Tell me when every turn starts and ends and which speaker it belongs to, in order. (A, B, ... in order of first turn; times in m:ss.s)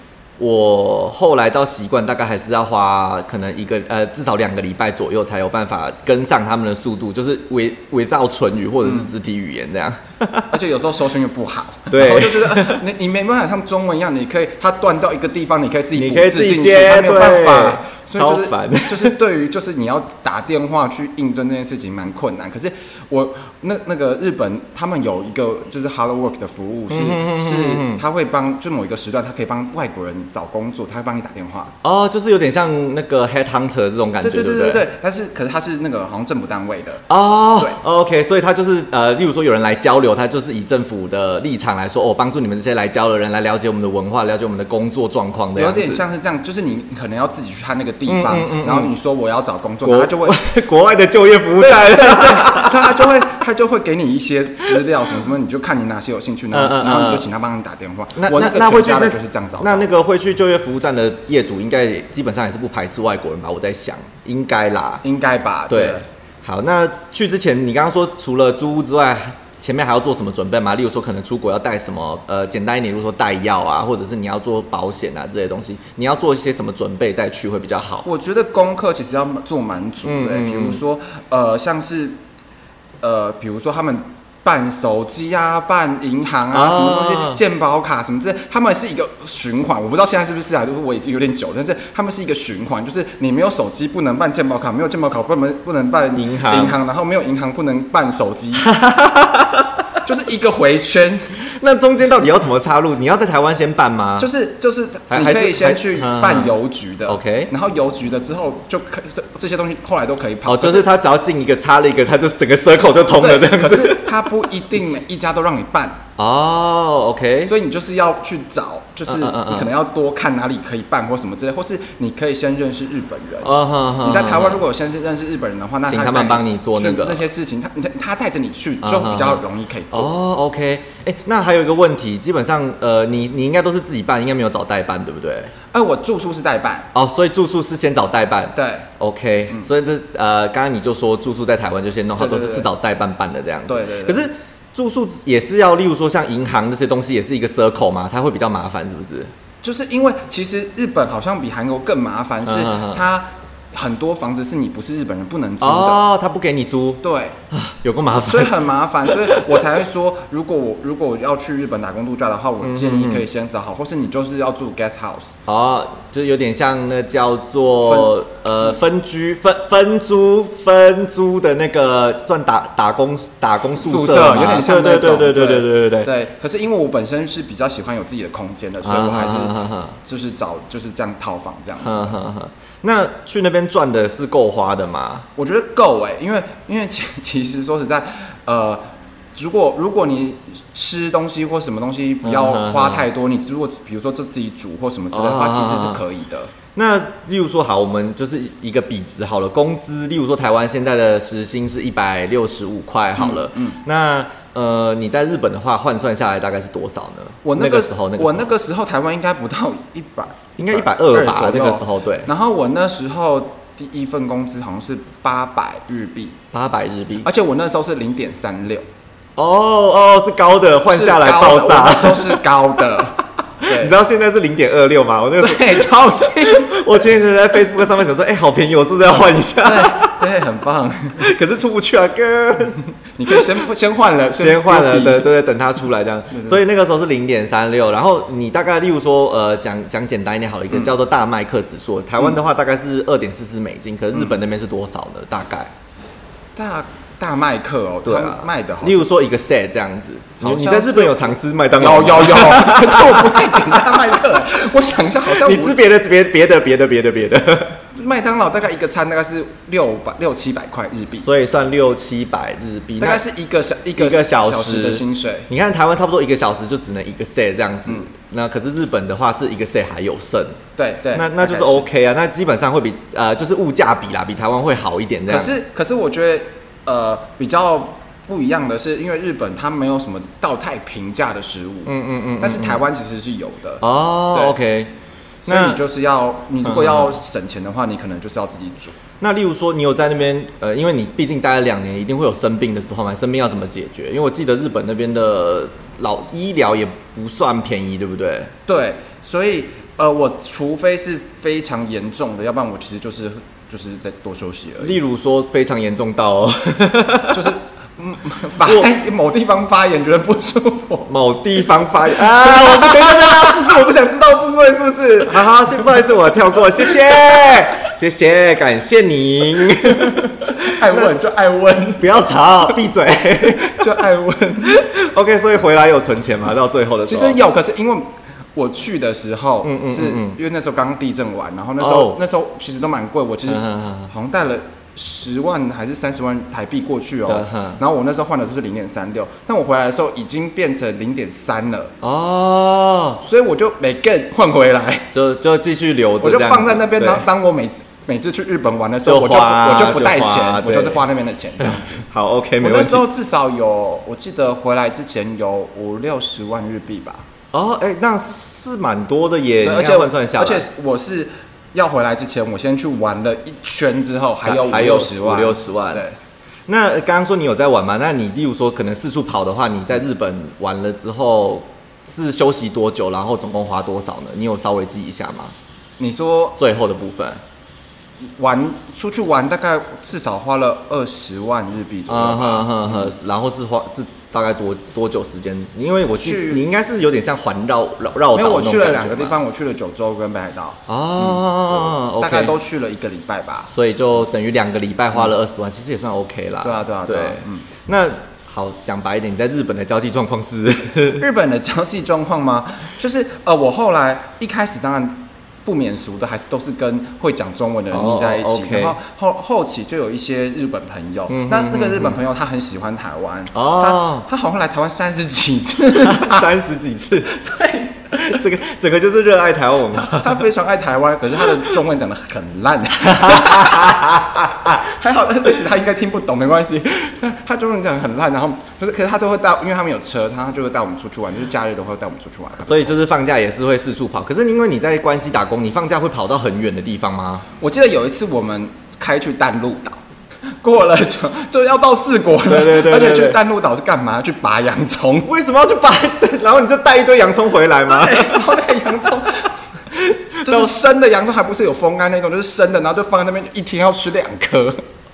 0:00.4-0:10.5 A
0:08.8-0:09.1 B
0:10.5-0:31.8 B
0:11.9-0:12.8 A
0:16.0-0:19.2 A
0:26.9-0:28.0 A
0:31.8-0:34.8 A
0:34.2-0:37.1 B
0:37.1-0:46.0 A
0:45.6-0:50.4 B
0:48.1-0:48.9 A
0:49.8-0:53.1 A
0:51.6-0:59.9 B
0:56.5-0:57.3 A
0:58.2-1:05.0 A
1:05.0-1:06.0 B
1:05.7-1:18.1 A
1:18.0-1:22.2 B
1:20.0-1:20.8 A
1:23.0-1:38.7 B
1:26.5-1:27.4 A
1:36.2-1:36.8 A
1:38.6-1:39.8 A
1:40.0-1:41.2 B
1:41.5-1:44.3 A
1:44.2-1:50.9 B
1:45.1-1:46.5 A
1:47.1-1:47.5 A
1:50.4-1:54.2 A
1:53.1-1:56.0 B
1:56.2-1:57.5 A
1:57.4-2:10.1 B
1:59.1-1:59.7 A
2:03.4-2:04.6 A
2:05.9-2:07.2 A
2:08.8-2:09.4 A
2:09.9-2:15.5 A
2:15.7-2:16.9 B
2:16.9-2:29.3 A
2:18.6-2:18.9 B
2:22.2-2:22.7 B
2:23.7-2:24.2 B
2:29.6-2:36.0 B
2:32.5-2:33.0 A
2:35.6-2:38.5 A
2:37.0-2:37.4 B
2:38.2-2:45.3 B
2:42.6-2:43.2 A
2:45.5-2:56.1 A
2:47.8-2:48.1 B
2:53.8-3:02.1 B
2:58.8-3:00.0 A
3:01.8-3:05.3 A
3:05.4-3:08.8 B
3:09.4-3:16.5 B
3:12.2-3:13.0 A
3:15.1-3:16.0 A
3:16.7-3:28.5 A
3:23.2-3:23.8 B
3:27.4-3:36.4 B
3:30.6-3:32.3 A
3:36.5-3:37.3 A
3:37.2-3:38.9 B
3:39.4-3:42.4 A
3:40.9-3:44.0 B
3:43.7-3:50.2 A
3:45.4-3:46.8 B
3:49.6-3:51.2 B
3:51.2-3:52.8 A
3:53.2-3:55.3 B
3:54.4-4:05.7 A
3:56.3-3:56.6 B
4:06.6-4:09.1 B
4:08.0-4:14.2 A
4:10.4-4:15.8 B
4:15.3-4:17.8 A
4:17.9-4:21.3 B
4:21.1-4:23.2 A
4:23.0-4:25.5 B
4:24.0-4:30.6 A
4:30.8-4:31.9 B
4:31.2-4:35.5 A
4:35.3-4:44.6 B
4:41.9-4:42.8 A
4:43.8-4:44.9 A
4:45.4-4:49.0 B
4:45.5-4:45.8 A
4:46.6-4:47.1 A
4:49.2-4:58.5 A
4:58.7-5:05.0 B
5:04.8-5:07.6 A
5:07.3-5:11.1 B
5:11.1-5:21.1 A
5:12.2-5:13.9 B
5:15.4-5:16.1 B
5:16.8-5:17.6 B
5:19.8-5:22.1 B
5:22.0-5:23.9 A
5:23.5-5:24.8 B
5:24.6-5:27.4 A
5:27.1-5:41.9 B
5:29.6-5:30.4 A
5:31.8-5:32.2 A
5:33.5-5:34.1 A
5:37.3-5:37.8 A
5:42.0-5:43.2 A
5:43.2-5:45.1 B
5:45.1-5:47.3 A
5:46.2-5:52.0 B
5:49.0-5:51.0 A
5:51.6-5:53.0 A
5:52.6-5:57.3 B
5:57.5-6:00.7 A
5:59.6-6:06.2 B
6:04.4-6:06.0 A
6:06.7-6:15.5 A
6:16.0-6:16.6 B
6:16.6-6:17.4 A
6:18.2-6:23.1 B
6:22.1-6:29.3 A
6:26.2-6:26.6 B
6:28.3-6:33.7 B
6:30.9-6:32.5 A
6:33.7-6:41.2 A
6:36.6-6:37.7 B
6:41.2-6:56.5 B
6:47.9-6:49.0 A
6:51.3-6:52.2 A
6:53.5-6:54.3 A
6:56.0-6:57.4 A
6:57.3-6:58.4 B
6:58.1-7:00.4 A
7:00.0-7:13.0 B
7:03.0-7:04.7 A
7:12.6-7:17.5 A
7:17.6-7:25.3 B
7:22.5-7:23.4 A
7:25.2-7:28.5 A
7:27.9-7:29.6 B
7:30.0-7:30.7 A
7:30.4-7:34.8 B